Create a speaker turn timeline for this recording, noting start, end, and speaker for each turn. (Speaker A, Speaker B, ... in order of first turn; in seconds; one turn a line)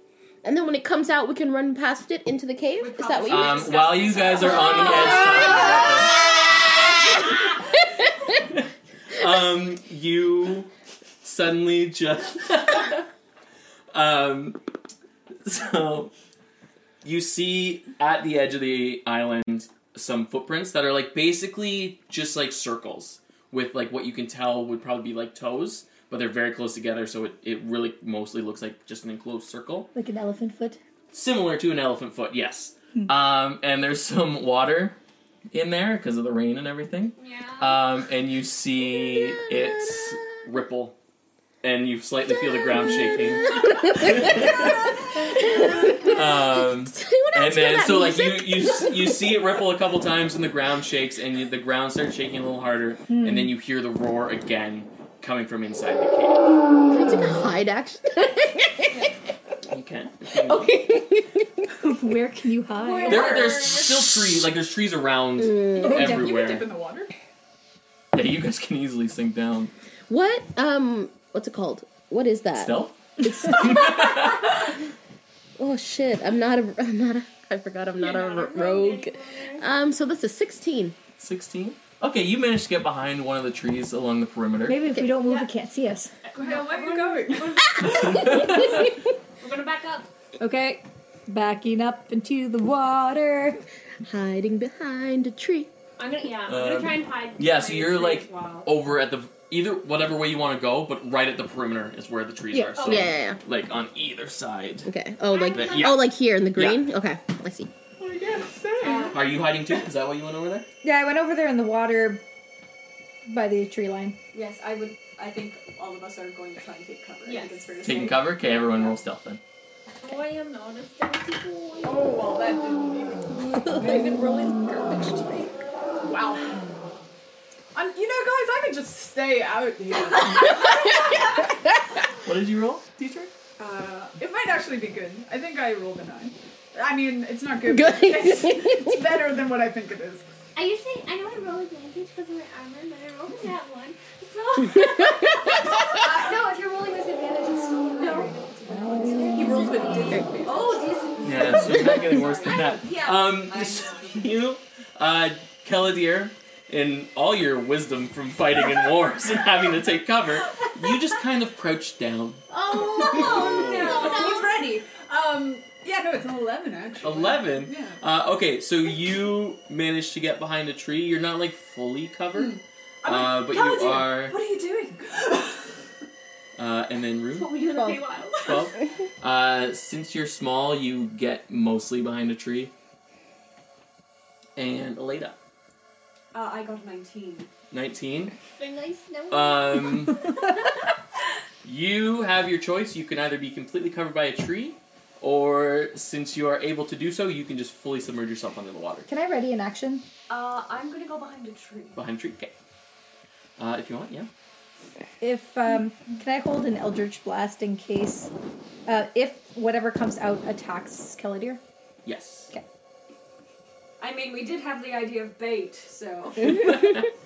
Speaker A: 0.4-3.7
Speaker B: 2.8-5.5
Speaker C: 3.2-6.3
Speaker D: 3.8-5.0
Speaker A: 4.8-7.0
Speaker C: 8.5-10.7
Speaker C: 11.2-13.1
Speaker C: 13.9-14.6
Speaker C: 15.4-16.1
Speaker C: 17.0-29.9
Speaker E: 29.9-30.8
Speaker C: 31.1-35.0
Speaker C: 35.5-41.0
Speaker F: 37.2-37.8
Speaker C: 41.6-44.7
Speaker A: 42.6-44.6
Speaker A: 45.5-49.4
Speaker C: 45.6-56.5
Speaker E: 53.1-53.5
Speaker A: 56.9-59.1
Speaker C: 59.7-60.8
Speaker A: 60.4-61.6
Speaker E: 61.8-63.3
Speaker F: 62.8-63.9
Speaker C: 63.1-66.7
Speaker A: 63.3-64.0
Speaker A: 65.4-66.1
Speaker B: 65.8-67.1
Speaker C: 68.1-69.7
Speaker A: 70.1-74.2
Speaker C: 72.5-74.6
Speaker A: 75.6-80.9
Speaker F: 78.0-79.6
Speaker C: 81.2-84.8
Speaker E: 84.7-86.1
Speaker F: 86.2-90.0
Speaker B: 86.3-88.6
Speaker E: 90.4-93.6
Speaker A: 94.0-95.7
Speaker F: 96.0-98.7
Speaker C: 96.4-104.9
Speaker F: 102.8-103.0
Speaker A: 102.8-103.4
Speaker A: 104.8-107.7
Speaker F: 105.3-106.0
Speaker C: 105.5-106.8
Speaker B: 108.0-109.2
Speaker F: 108.8-109.2
Speaker C: 109.1-110.7
Speaker E: 110.8-112.2
Speaker E: 113.2-114.2
Speaker D: 114.3-118.7
Speaker F: 117.2-117.9
Speaker C: 117.8-119.4
Speaker F: 120.0-122.2
Speaker B: 121.8-126.8
Speaker B: 127.7-131.5
Speaker C: 132.2-133.3
Speaker B: 133.6-140.2
Speaker A: 137.7-138.9
Speaker F: 140.5-145.8
Speaker A: 144.8-145.8
Speaker D: 145.9-149.8
Speaker F: 148.0-148.3
Speaker E: 148.7-150.2
Speaker B: 149.3-150.8
Speaker F: 149.3-149.9
Speaker D: 150.4-154.3
Speaker F: 150.4-152.0
Speaker C: 151.2-162.4
Speaker F: 162.5-164.6
Speaker C: 163.0-164.0
Speaker B: 163.2-168.0
Speaker D: 163.2-164.4
Speaker C: 167.0-174.3
Speaker B: 172.3-175.8
Speaker C: 176.6-177.7
Speaker F: 177.3-178.7
Speaker C: 178.3-182.7
Speaker C: 184.6-185.4
Speaker D: 186.3-187.5
Speaker C: 187.7-188.3
Speaker F: 188.6-190.4
Speaker C: 189.3-190.3
Speaker C: 191.6-199.1
Speaker E: 199.1-200.1
Speaker D: 200.3-202.0
Speaker C: 201.9-202.5
Speaker C: 203.6-204.3
Speaker E: 205.2-208.3
Speaker E: 208.9-211.6
Speaker C: 212.0-212.5
Speaker D: 214.0-216.8
Speaker C: 216.7-217.1